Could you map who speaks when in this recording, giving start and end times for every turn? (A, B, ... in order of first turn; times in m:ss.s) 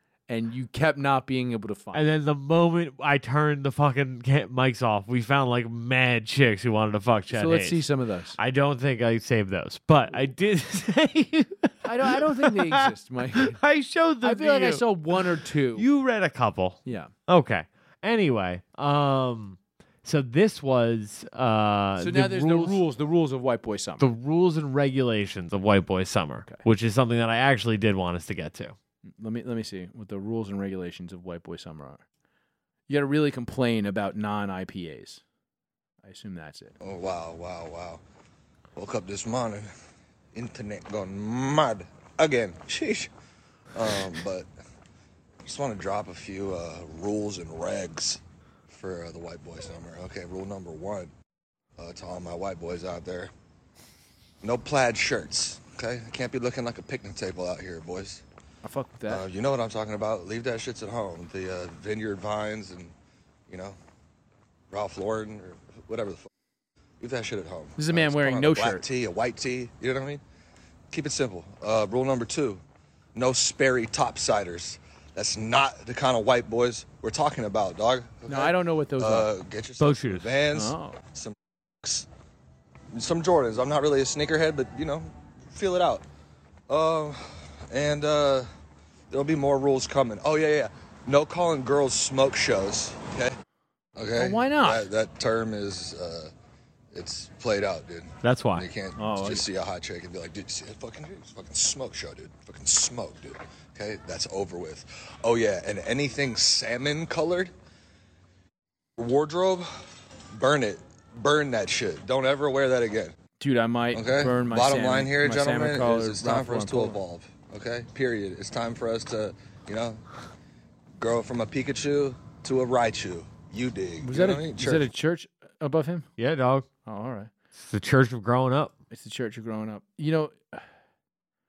0:00.3-0:02.0 A
0:01.9-0:07.8 B
0:07.3-0:08.4 A
0:08.4-0:22.8 B
0:11.8-0:13.6 A
0:14.2-0:15.8 A
0:16.8-0:17.1 A
0:22.0-0:24.1 A
0:24.0-0:28.8 B
0:29.1-0:32.0 A
0:32.9-0:35.2 A
0:36.0-0:36.7 A
0:36.8-0:38.0 C
0:38.8-0:39.7 C
0:40.3-0:43.1 C
0:43.7-0:44.5 C
0:45.4-0:51.1 C
0:51.8-0:53.3 C
0:54.4-0:58.2 C
0:58.6-0:59.2 A
0:59.1-1:02.9 C
1:03.5-1:03.8 C
1:04.7-1:06.2 C
1:07.0-1:10.2 C
1:07.8-1:08.8 A
1:10.9-1:12.6 C
1:13.1-1:22.1 C
1:18.3-1:19.3 A
1:19.8-1:20.4 B
1:20.5-1:21.0 A
1:22.9-1:26.0 C
1:26.7-1:28.5 C
1:29.1-1:33.3 C
1:34.0-1:36.3 C
1:34.1-1:34.8 A
1:36.9-1:47.5 C
1:38.2-1:38.7 B
1:39.0-1:39.4 A
1:49.0-1:49.7 C
1:50.3-1:53.1 C
1:53.4-1:57.0 A
1:53.9-2:00.0 C
2:01.0-2:04.8 C
2:04.0-2:06.1 A
2:06.2-2:06.7 B
2:06.8-2:07.3 A
2:07.5-2:08.7 B
2:08.9-2:10.6 A